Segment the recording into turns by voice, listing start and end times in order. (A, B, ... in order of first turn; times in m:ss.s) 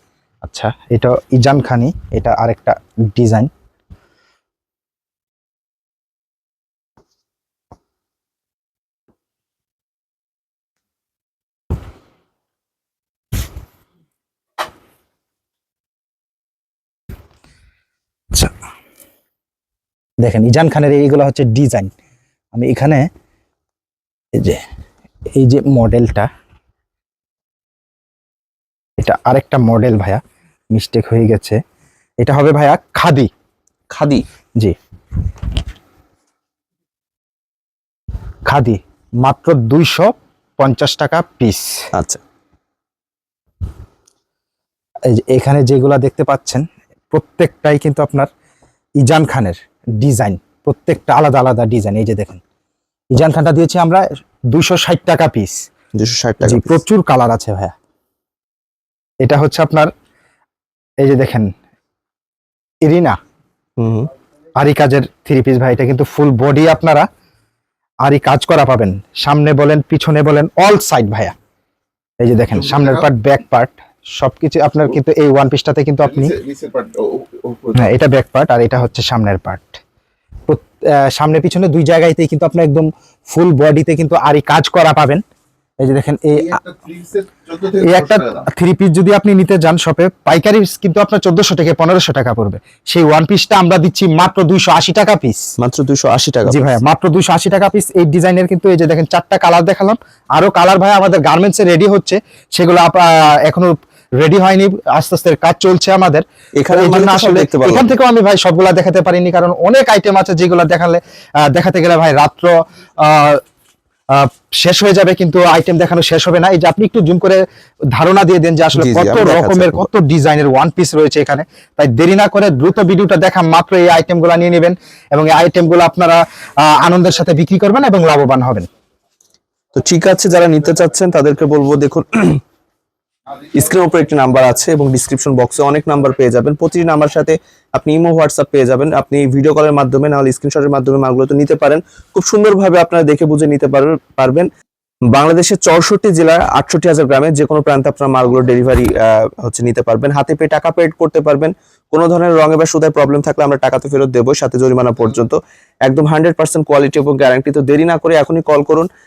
0:00.4-0:03.5 A
0:20.2-0:21.9 A
0:22.5-0:23.1 A
0:24.4-0:24.6 A
0:25.3-0:26.3 A
0:29.0-0:30.2 A
0:30.7-0:31.6 A
0:32.2-0:33.3 A
0:33.9-0:34.2 B
0:38.5-0:41.8 A
0:41.9-0:42.2 B
0:45.1-0:48.3 A
0:49.0-0:52.4 A
0:53.1-0:55.6 A
0:56.0-0:56.8 B
0:56.4-0:57.7 A
0:59.2-0:59.9 A
1:01.0-1:01.5 A
1:02.9-1:03.2 A
1:03.8-1:04.1 B
1:04.6-1:07.1 A
1:08.0-1:11.3 A
1:12.2-1:16.3 A
1:16.1-1:17.9 C
1:17.8-1:19.8 A
1:20.5-1:25.2 A
1:25.8-1:26.6 A
1:26.5-1:28.4 C
1:27.8-1:35.5 A
1:35.6-1:36.8 B
1:36.5-1:53.4 A
1:46.6-1:47.9 B
1:54.1-1:57.4 A
1:58.0-2:08.7 A
1:58.7-1:59.9 B
2:09.8-2:12.4 B
2:13.5-2:24.5 B
2:25.1-2:38.9 B